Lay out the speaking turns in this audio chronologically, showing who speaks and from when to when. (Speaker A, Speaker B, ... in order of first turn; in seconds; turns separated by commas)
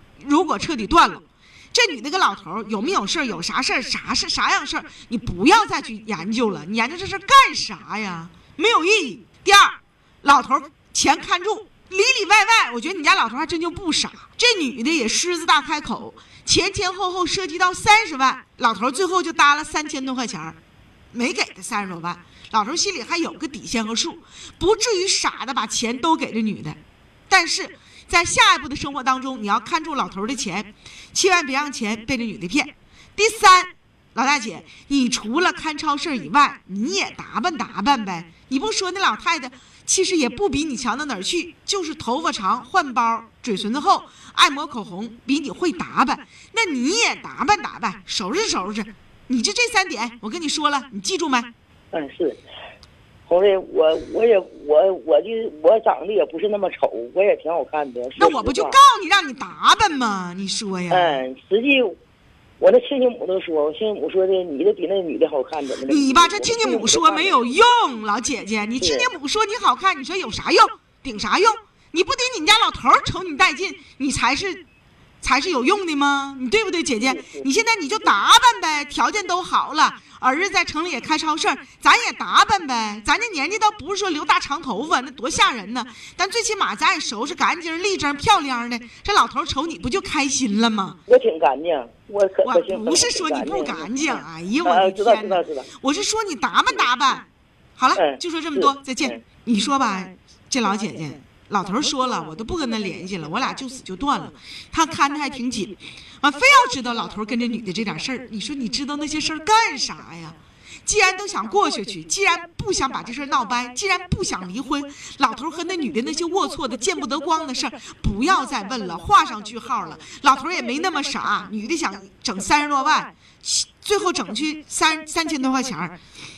Speaker A: 0.2-20.6, Speaker A: 21.1-51.5, Speaker B: 51.9-52.4, Speaker B: 53.3-58.8, Speaker A: 58.2-61.2, Speaker B: 60.9-61.9, Speaker B: 62.6-67.4, Speaker A: 65.9-74.6, Speaker B: 68.8-69.1, Speaker A: 75.2-91.0, Speaker B: 77.1-77.5, Speaker B: 91.1-95.7, Speaker A: 92.5-97.3, Speaker A: 97.8-126.0, Speaker B: 98.0-99.2